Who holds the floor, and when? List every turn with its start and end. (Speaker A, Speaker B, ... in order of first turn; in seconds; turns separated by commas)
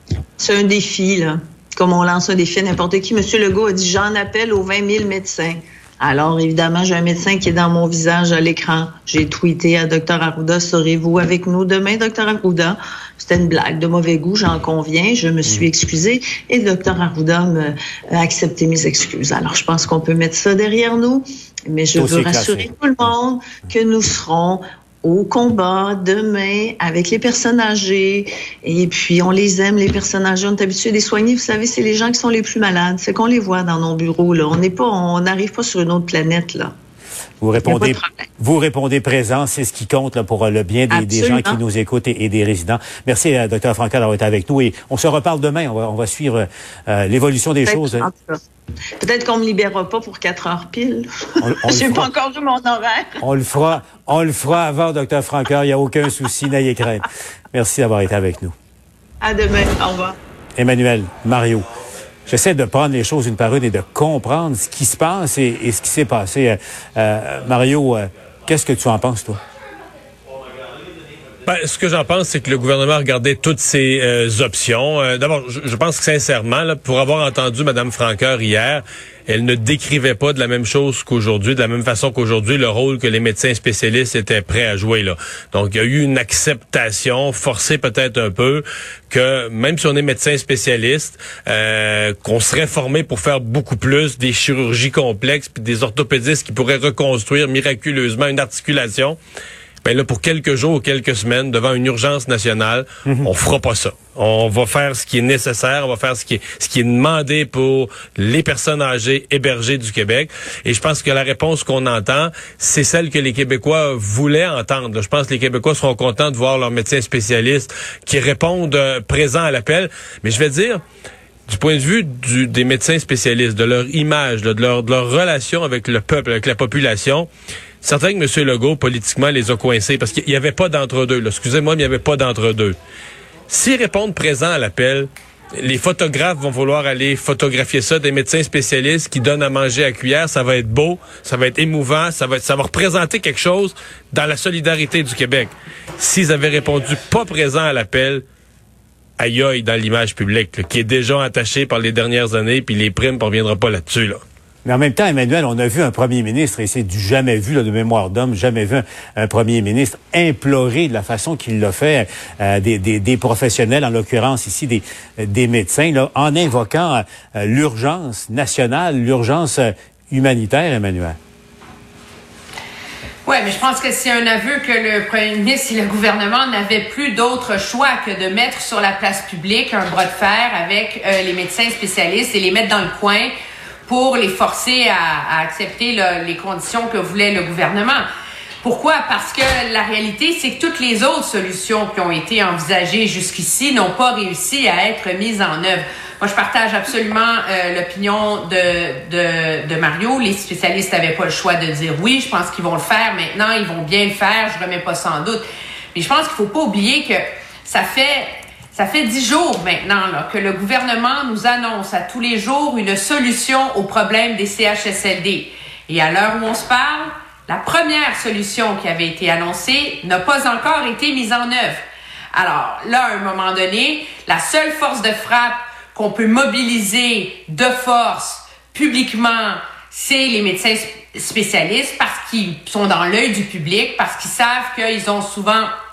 Speaker A: 0.4-36.7, Speaker B: 21.9-22.6, Speaker B: 37.4-48.1, Speaker A: 37.6-38.2, Speaker A: 40.9-41.6, Speaker A: 47.6-48.4, Speaker A: 49.0-53.1, Speaker B: 51.4-52.1, Speaker B: 53.2-58.5, Speaker A: 59.2-60.1, Speaker B: 60.6-61.6, Speaker B: 62.3-69.4, Speaker C: 71.5-99.2, Speaker C: 99.8-120.8, Speaker C: 121.5-127.3, Speaker C: 127.8-132.8, Speaker C: 133.5-148.2, Speaker C: 149.2-154.2, Speaker B: 154.6-171.2, Speaker D: 173.2-183.3, Speaker D: 183.8-188.0, Speaker D: 188.6-221.8, Speaker D: 222.3-235.7